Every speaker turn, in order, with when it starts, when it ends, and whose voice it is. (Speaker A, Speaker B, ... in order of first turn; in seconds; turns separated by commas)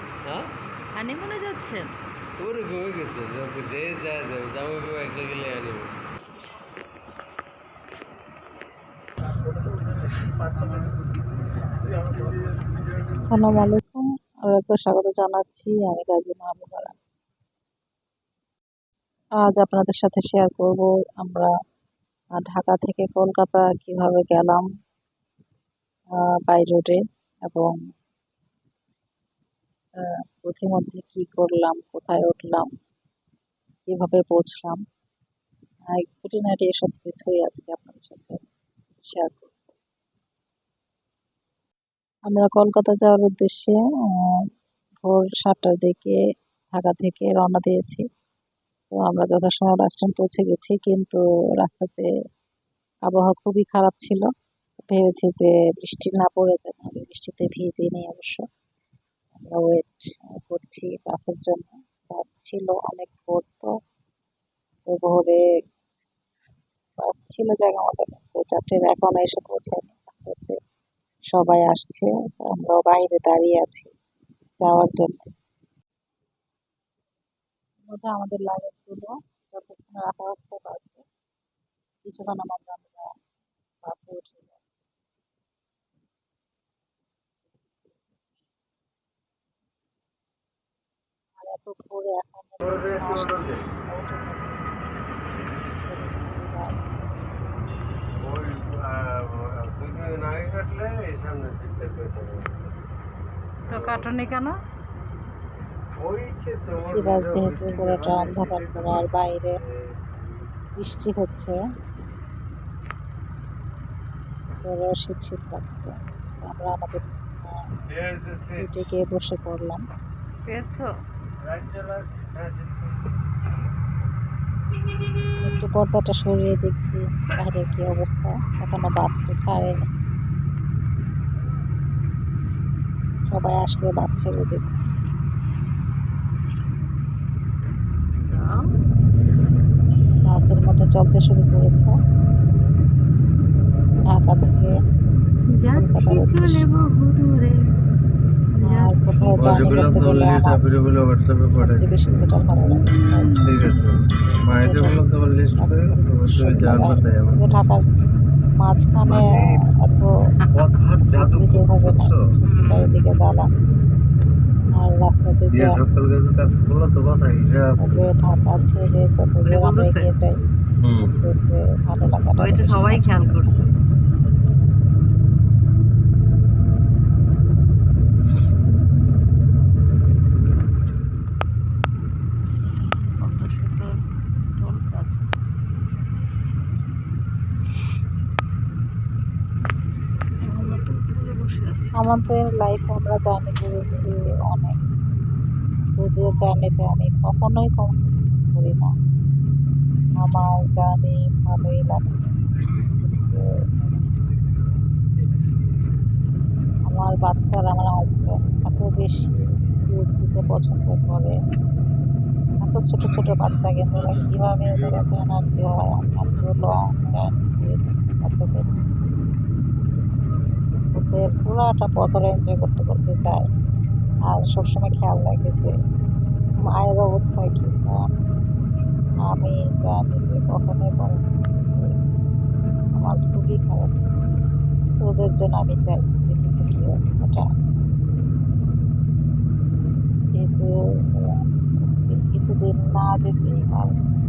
Speaker A: 0.2-0.5, Speaker B: 1.0-1.9, Speaker A: 2.4-5.9, Speaker C: 13.2-17.0, Speaker C: 19.4-21.5, Speaker C: 22.4-24.7, Speaker C: 26.1-27.8, Speaker C: 30.0-32.7, Speaker C: 33.9-34.8, Speaker C: 35.9-38.4, Speaker C: 39.0-39.5, Speaker C: 42.3-44.5, Speaker C: 45.0-46.2, Speaker C: 46.7-48.0, Speaker C: 48.9-52.1, Speaker C: 53.1-54.3, Speaker C: 54.9-58.5, Speaker C: 59.3-63.7, Speaker C: 64.9-65.4, Speaker C: 67.0-70.6, Speaker C: 71.3-73.9, Speaker C: 74.6-75.3, Speaker C: 77.9-81.0, Speaker C: 82.0-83.1, Speaker C: 83.8-84.6, Speaker C: 91.4-94.6, Speaker A: 92.6-93.7, Speaker C: 95.9-96.9, Speaker A: 98.2-102.7, Speaker A: 103.7-104.1, Speaker B: 103.7-104.6, Speaker A: 106.0-109.0, Speaker C: 106.8-109.6, Speaker A: 109.7-110.4, Speaker C: 110.8-111.6, Speaker C: 114.6-117.6, Speaker A: 117.9-118.8, Speaker C: 118.5-119.8, Speaker B: 120.5-120.9, Speaker A: 121.4-123.2, Speaker C: 125.4-129.9, Speaker C: 133.3-134.8, Speaker B: 138.3-138.6, Speaker C: 140.2-141.9, Speaker C: 144.0-144.7, Speaker B: 145.6-147.7, Speaker C: 145.7-146.7, Speaker B: 148.6-149.9, Speaker C: 148.7-150.6, Speaker A: 149.4-152.3, Speaker C: 151.6-153.4, Speaker A: 153.3-157.7, Speaker C: 154.6-155.0, Speaker C: 155.6-157.8, Speaker C: 158.6-160.1, Speaker A: 159.1-159.6, Speaker A: 160.5-162.2, Speaker C: 161.2-163.5, Speaker B: 162.5-162.9, Speaker C: 164.8-165.8, Speaker A: 165.5-168.0, Speaker C: 167.8-170.4, Speaker B: 169.5-170.1, Speaker A: 170.8-171.2, Speaker C: 171.0-173.2, Speaker B: 172.4-173.7, Speaker B: 183.0-183.9, Speaker B: 184.6-185.3, Speaker B: 190.4-192.1, Speaker C: 192.0-194.8, Speaker B: 192.7-192.9, Speaker C: 195.9-198.9, Speaker C: 200.2-202.2, Speaker C: 202.8-203.5, Speaker C: 206.8-211.4, Speaker C: 212.6-218.7, Speaker C: 220.9-223.5, Speaker C: 224.3-225.7, Speaker C: 226.7-228.1, Speaker C: 229.3-231.9, Speaker C: 232.9-234.1, Speaker C: 234.9-237.5, Speaker C: 240.3-243.9